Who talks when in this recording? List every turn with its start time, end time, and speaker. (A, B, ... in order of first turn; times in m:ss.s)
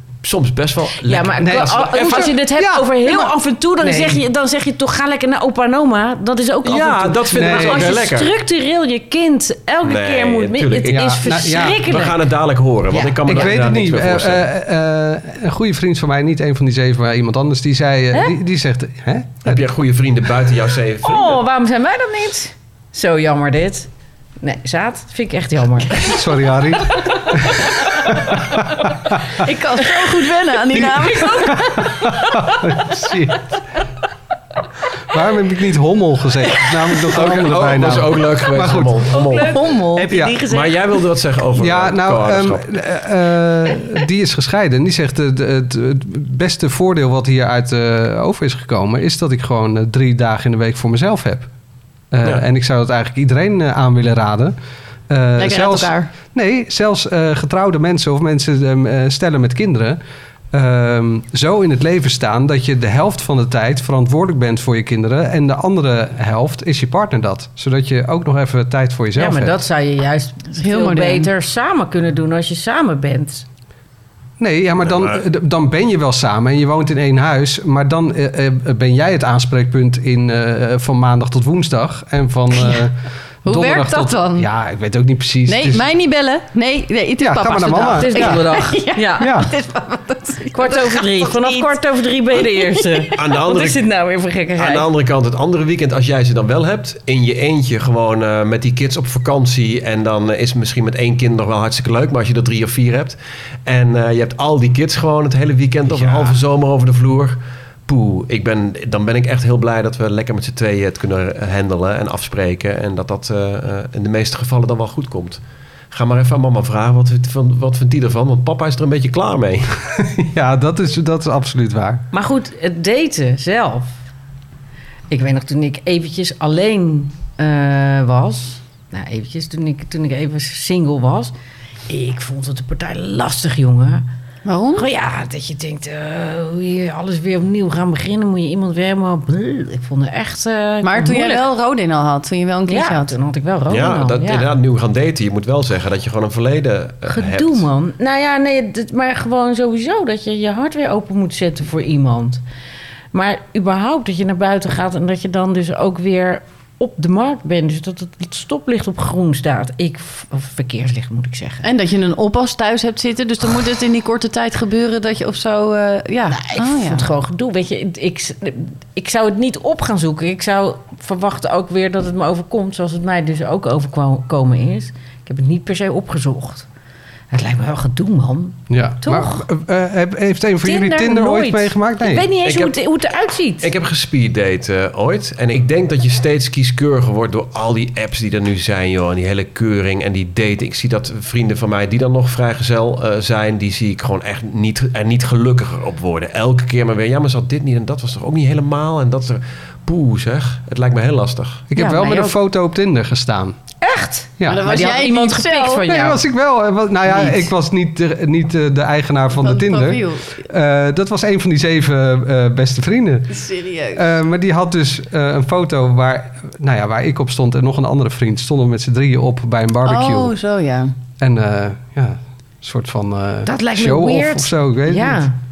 0:00.2-0:02.2 A
0:01.1-0:12.3 B
0:01.4-0:03.3 C
0:06.6-0:08.3 A
0:07.3-0:08.0 C
0:09.8-0:14.4 A
0:10.9-0:11.8 C
0:13.3-0:19.6 C
0:19.4-0:21.4 A
0:21.0-0:23.9 B
0:24.4-0:26.1 B
0:26.0-0:29.1 C
0:29.4-0:31.8 D
0:30.7-0:32.6 B
0:31.5-0:33.4 C
0:35.1-0:39.2 C
0:37.1-0:39.7 A
0:39.1-0:41.0 B
0:39.4-0:40.2 D
0:40.1-0:40.4 C
0:40.4-0:42.7 A
0:41.5-0:51.5 C
0:52.1-0:54.6 C
0:55.1-1:00.0 C
0:55.4-0:56.1 D
1:00.5-1:09.6 C
1:09.2-1:13.5 B
1:10.6-1:11.3 D
1:14.4-1:25.9 C
1:14.8-1:15.2 A
1:23.4-1:24.5 D
1:25.5-1:31.7 D
1:27.2-1:28.5 C
1:28.0-1:29.4 B
1:29.2-1:29.5 C
1:30.5-1:34.9 B
1:32.6-1:33.1 D
1:33.1-1:33.9 A
1:34.6-1:59.7 A
1:46.0-1:46.3 C
2:00.0-2:02.0 C
2:02.1-2:04.0 B
2:05.1-2:11.3 B
2:11.9-2:14.0 B
2:14.4-2:14.9 D
2:14.8-2:21.4 B
2:20.8-2:23.2 D
2:22.7-2:24.5 B
2:23.7-2:27.7 A
2:27.1-2:32.4 B
2:33.1-2:41.6 B
2:41.6-2:47.1 D
2:46.3-2:56.7 B
2:57.3-2:59.4 B
2:58.7-3:02.3 C
3:00.6-3:03.7 B
3:02.4-3:02.7 A
3:03.6-3:21.7 A
3:21.7-3:23.6 C
3:21.8-3:22.4 B
3:23.8-3:26.2 B
3:24.4-3:24.7 C
3:24.5-3:26.2 D
3:25.9-3:33.4 C
3:29.4-3:30.5 D
3:33.3-3:34.1 D
3:33.9-3:40.4 C
3:39.8-3:40.9 D
3:41.2-3:45.3 C
3:43.4-3:45.4 B